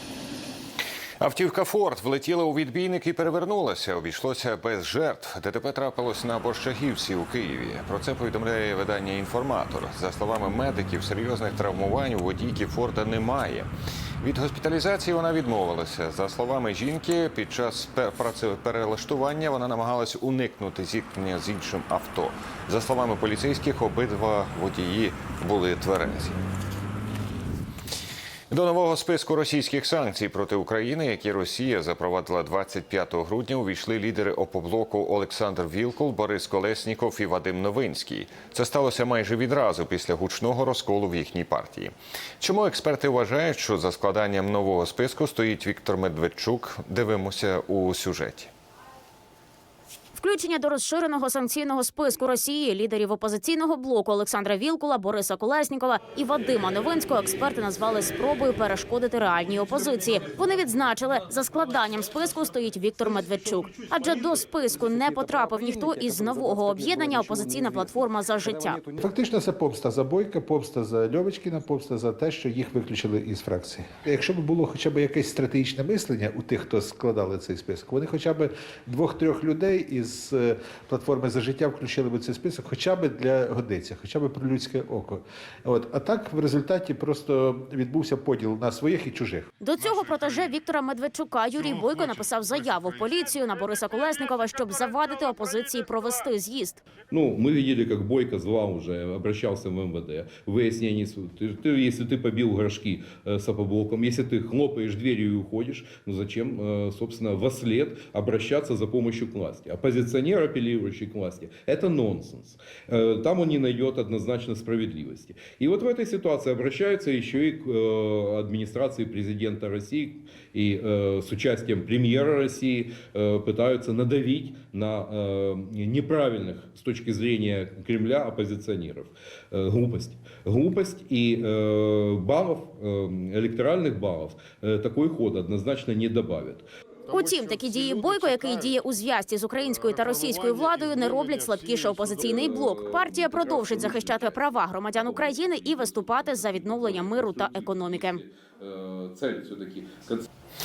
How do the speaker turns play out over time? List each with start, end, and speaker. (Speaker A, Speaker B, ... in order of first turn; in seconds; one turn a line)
Speaker A: 1.2-13.7
Speaker A: 14.2-26.4
Speaker A: 28.5-48.5
Speaker B: 50.1-68.8
Speaker C: 69.0-89.5
Speaker B: 89.6-96.8
Speaker D: 97.1-136.7
Speaker B: 137.1-148.2
Speaker D: 142.2-150.2